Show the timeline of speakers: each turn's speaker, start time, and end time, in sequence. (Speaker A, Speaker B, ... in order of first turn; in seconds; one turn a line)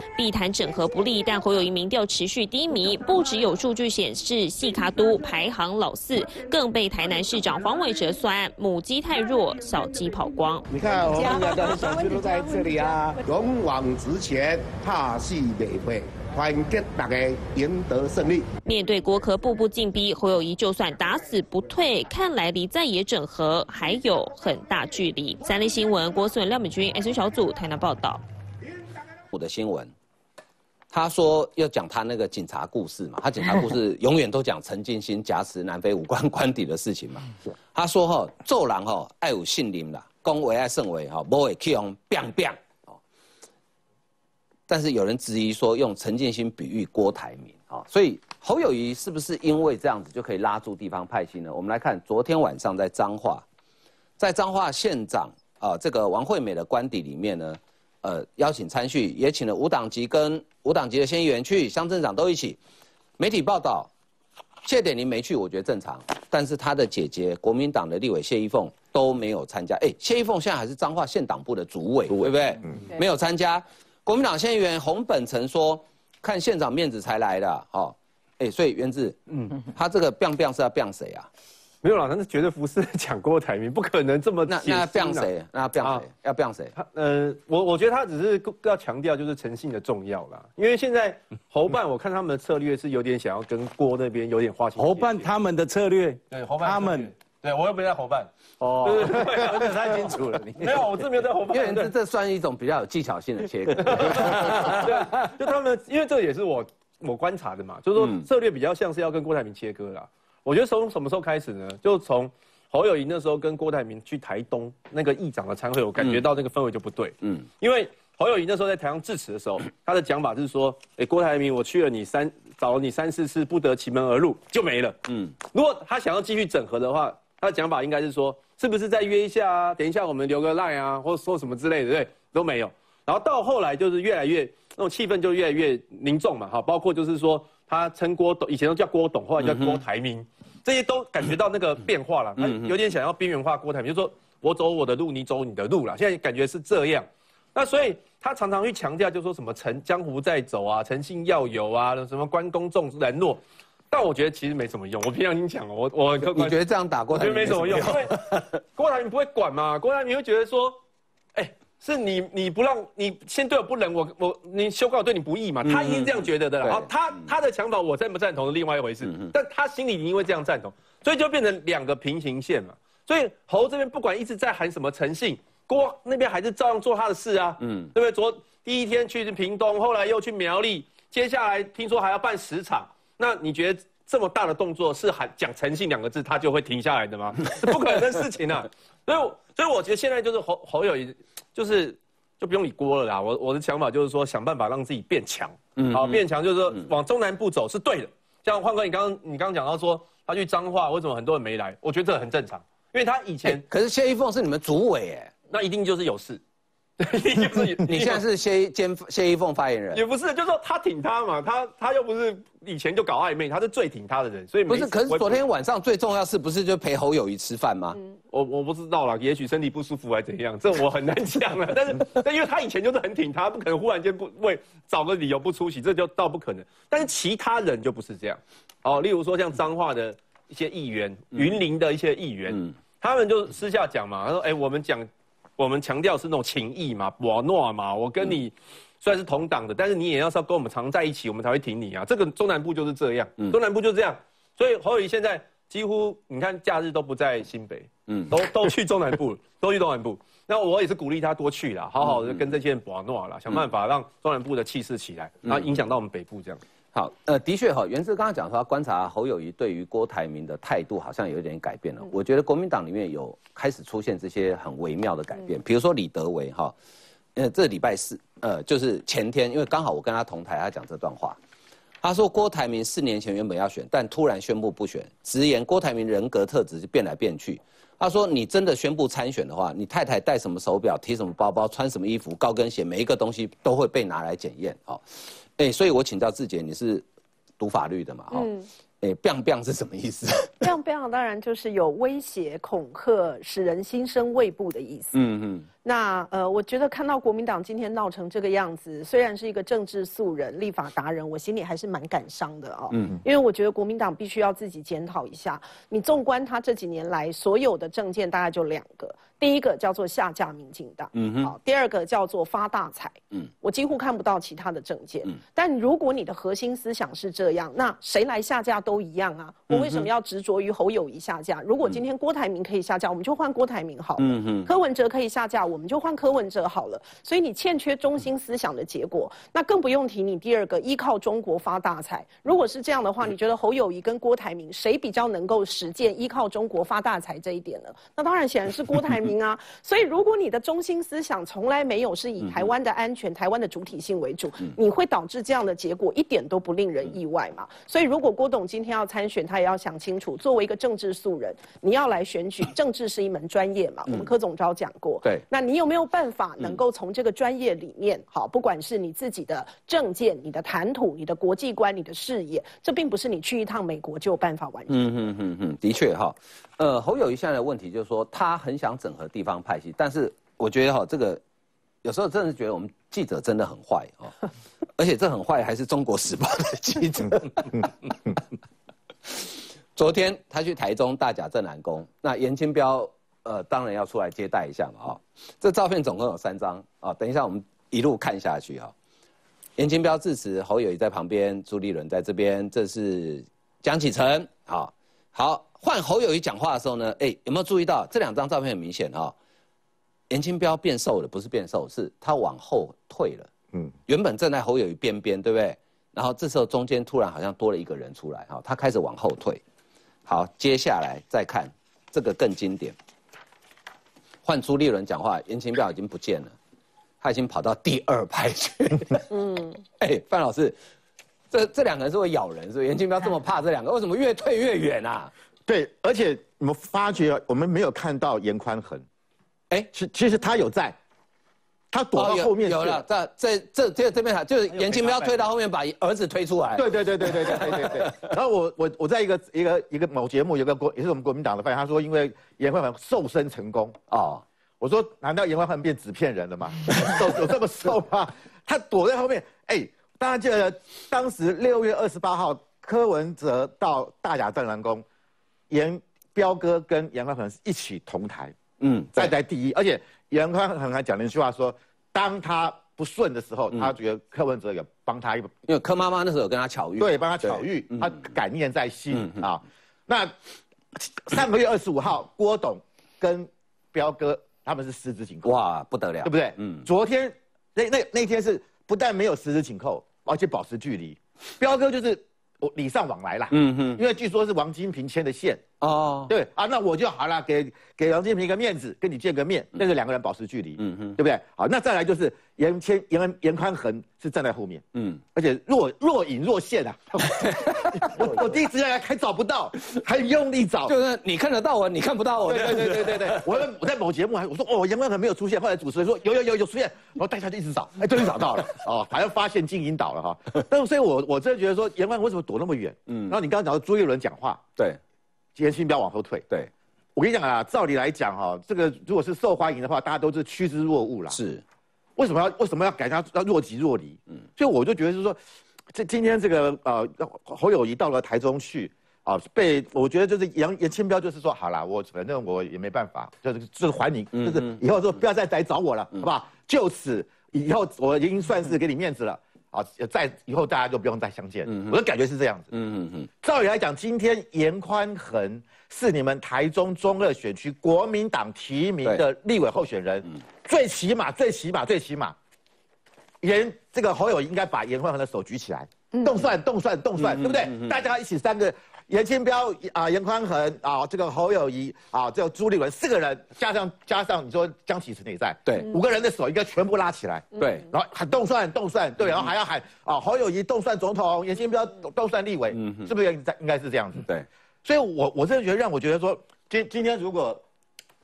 Speaker A: 0.1-10.7
Speaker B: 10.7-18.4
Speaker A: 18.6-28.2
Speaker C: 29.3-29.9
Speaker C: 30.9-43.0
Speaker C: 44.7-53.4
Speaker C: 54.2-62.6
Speaker C: 63.2-63.9
Speaker C: 64.6-81.3
Speaker D: 72.1-72.8
Speaker E: 79.3-79.5
Speaker E: 81.8-85.3
Speaker C: 84.5-86.7
Speaker E: 85.8-86.1
Speaker E: 86.7-95.3
Speaker F: 94.8-97.1
Speaker E: 96.3-101.9
Speaker F: 98.6-101.0
Speaker C: 101.5-104.8
Speaker E: 103.8-156.6
Speaker C: 108.0-108.2
Speaker C: 116.0-116.2
Speaker C: 139.4-139.8
Speaker C: 142.4-142.8
Speaker C: 156.2-158.4
Speaker E: 157.1-158.2
Speaker E: 158.7-160.8
Speaker E: 161.3-203.6
Speaker C: 165.6-166.9
Speaker C: 169.0-169.3
Speaker C: 177.6-177.9
Speaker C: 195.8-196.9
Speaker C: 203.4-205.3
Speaker E: 205.5-206.4
Speaker E: 207.0-208.2
Speaker C: 207.5-210.1
Speaker E: 209.9-215.4
Speaker C: 214.7-218.0
Speaker E: 218.3-256.6
Speaker C: 248.1-248.3
Speaker C: 252.0-252.5
Speaker C: 255.4-255.7
Speaker C: 256.9-266.7
Speaker C: 267.4-271.4
Speaker C: 272.0-287.0
Speaker C: 287.6-288.5
Speaker G: 288.3-288.7
Speaker C: 289.0-290.7
Speaker G: 290.6-295.1
Speaker C: 295.1-295.7
Speaker G: 295.8-365.0
Speaker C: 311.1-311.5
Speaker C: 319.7-320.1
Speaker C: 324.2-324.7
Speaker C: 364.9-371.4
Speaker C: 372.0-374.4
Speaker C: 375.0-377.9
Speaker D: 377.0-377.9
Speaker C: 379.3-388.9
Speaker C: 389.8-399.3
Speaker C: 400.3-403.5
Speaker C: 404.1-409.6
Speaker C: 410.2-412.9
Speaker C: 414.4-416.5
Speaker C: 417.2-419.3
Speaker G: 419.3-419.8
Speaker C: 420.0-420.8
Speaker C: 421.5-425.3
Speaker D: 425.7-429.1
Speaker D: 429.9-431.0
Speaker D: 431.9-433.0
Speaker C: 432.1-438.3
Speaker E: 434.7-435.4
Speaker D: 436.8-443.9
Speaker C: 444.1-444.4
Speaker D: 444.8-455.0
Speaker D: 455.7-458.6
Speaker C: 458.8-459.3
Speaker D: 459.1-465.5
Speaker C: 465.7-468.1
Speaker D: 467.0-470.3
Speaker C: 469.1-469.4
Speaker D: 470.9-475.6
Speaker C: 475.4-476.9
Speaker D: 476.2-485.6
Speaker C: 483.5-484.0
Speaker C: 485.8-486.3
Speaker D: 486.3-500.9
Speaker C: 490.8-491.2
Speaker C: 494.9-495.2
Speaker C: 497.3-498.3
Speaker C: 500.9-503.6
Speaker D: 502.4-514.6
Speaker C: 513.1-513.4
Speaker D: 515.5-516.5
Speaker D: 517.1-521.4
Speaker C: 521.3-521.6
Speaker D: 522.2-525.4
Speaker D: 525.9-542.7
Speaker C: 534.4-534.8
Speaker C: 541.7-541.9
Speaker C: 542.7-543.3
Speaker D: 543.4-552.3
Speaker D: 553.4-574.2
Speaker G: 556.1-556.4
Speaker C: 557.2-557.9
Speaker C: 567.6-567.9
Speaker C: 572.7-573.1
Speaker D: 574.8-577.6